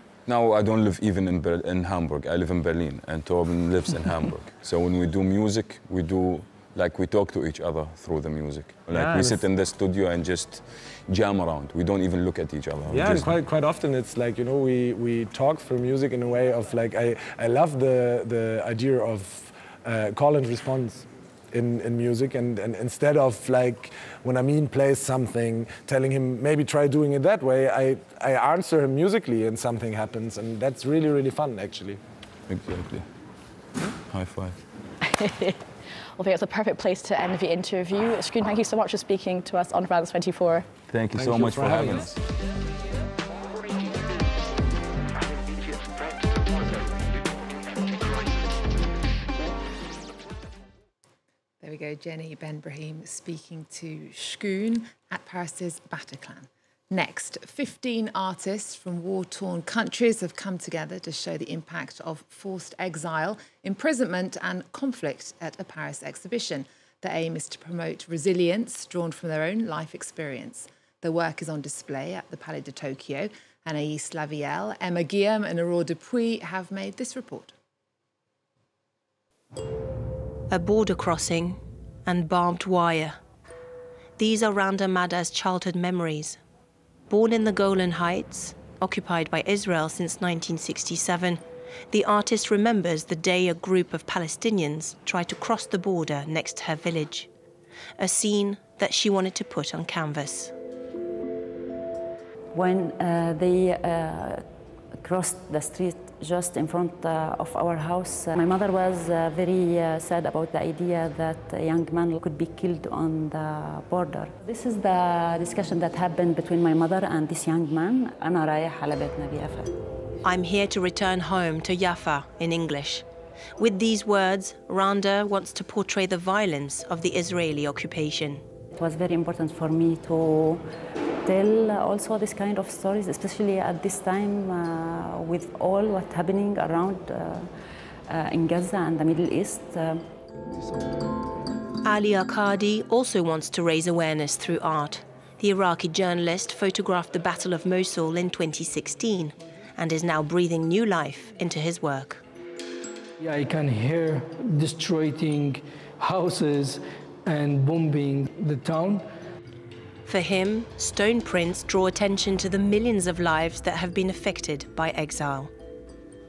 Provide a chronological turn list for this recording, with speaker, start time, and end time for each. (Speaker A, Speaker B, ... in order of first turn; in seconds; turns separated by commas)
Speaker A: 0.3-13.3, Speaker B: 8.9-9.4, Speaker B: 12.9-32.0, Speaker A: 32.5-33.0, Speaker A: 34.1-34.6, Speaker C: 35.0-35.6, Speaker C: 36.2-40.6, Speaker A: 40.9-42.2, Speaker B: 41.1-42.1, Speaker D: 51.6-77.5, Speaker E: 80.5-83.2, Speaker E: 84.2-86.4, Speaker E: 87.1-97.3, Speaker E: 98.0-100.5, Speaker F: 102.5-104.4, Speaker F: 105.0-119.7, Speaker E: 120.2-123.0, Speaker E: 123.6-128.4, Speaker F: 128.8-130.6, Speaker F: 131.2-137.5, Speaker F: 138.1-140.0, Speaker E: 141.8-152.2, Speaker G: 153.2-159.0, Speaker E: 160.1-165.5